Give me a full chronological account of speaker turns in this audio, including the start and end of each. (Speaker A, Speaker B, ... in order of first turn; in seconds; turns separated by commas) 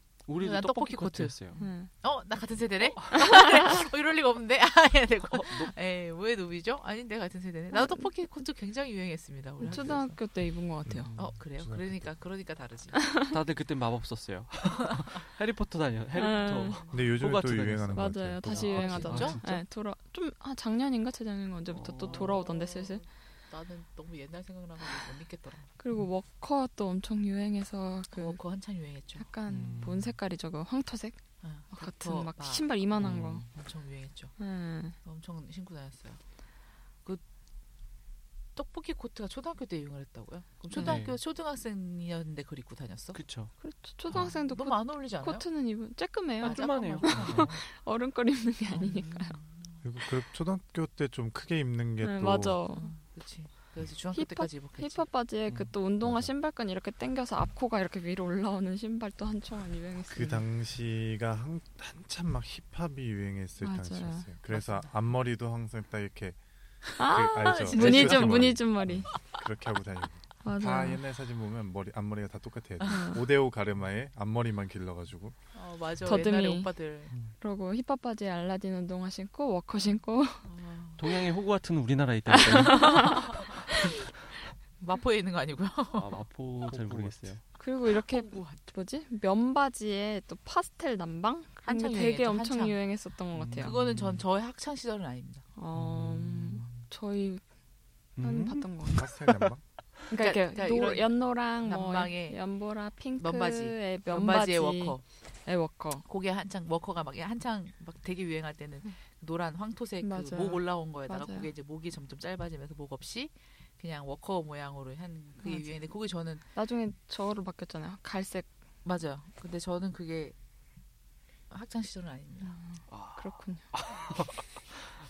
Speaker A: 0.2-1.6, Speaker B: 0.4-10.2, Speaker C: 1.6-1.9, Speaker C: 3.1-3.7, Speaker A: 5.2-5.7, Speaker C: 7.7-8.1, Speaker C: 9.6-11.1, Speaker D: 10.8-12.1, Speaker B: 11.2-13.0, Speaker C: 12.9-13.3, Speaker A: 13.2-19.6, Speaker C: 16.1-16.8, Speaker D: 16.9-19.4, Speaker C: 17.9-23.0, Speaker B: 18.8-19.4, Speaker A: 21.7-22.3, Speaker B: 22.0-25.7, Speaker C: 25.8-28.4, Speaker B: 28.1-29.2, Speaker C: 29.2-33.5, Speaker A: 29.5-30.1, Speaker B: 31.4-34.3, Speaker A: 33.0-33.5, Speaker C: 34.4-35.0, Speaker B: 35.0-36.2, Speaker B: 38.5-43.2, Speaker A: 40.7-41.2, Speaker A: 43.1-43.5, Speaker C: 43.6-49.4, Speaker B: 44.1-45.5, Speaker B: 46.4-47.6, Speaker A: 46.4-47.5, Speaker B: 48.8-49.8, Speaker D: 49.8-52.6, Speaker C: 52.0-52.9, Speaker B: 52.8-55.1, Speaker C: 54.1-60.4, Speaker D: 56.0-56.3, Speaker D: 60.1-66.4, Speaker C: 63.6-64.3, Speaker B: 64.5-64.9, Speaker D: 66.9-75.3, Speaker C: 67.0-69.1, Speaker B: 67.4-68.5, Speaker C: 70.4-71.0, Speaker C: 72.9-73.2, Speaker B: 75.5-77.1, Speaker C: 76.0-76.8, Speaker C: 77.4-80.5, Speaker B: 80.4-81.0, Speaker A: 81.0-83.5, Speaker C: 82.3-83.4, Speaker B: 82.7-83.5, Speaker B: 84.8-86.2, Speaker A: 85.9-87.4, Speaker D: 86.7-87.3, Speaker C: 87.6-93.7, Speaker B: 88.1-88.6, Speaker B: 91.6-92.8, Speaker A: 93.3-94.2, Speaker B: 93.6-95.5, Speaker C: 95.5-97.4, Speaker A: 95.7-96.8, Speaker A: 98.2-99.5, Speaker C: 98.2-99.1, Speaker D: 98.9-99.6, Speaker C: 100.1-106.0, Speaker B: 100.1-102.4, Speaker B: 103.2-105.0, Speaker B: 106.1-116.4, Speaker C: 110.0-111.5, Speaker C: 115.4-115.8, Speaker C: 116.5-118.5, Speaker B: 118.8-120.3, Speaker B: 121.5-122.5, Speaker C: 122.4-123.6, Speaker A: 122.9-124.8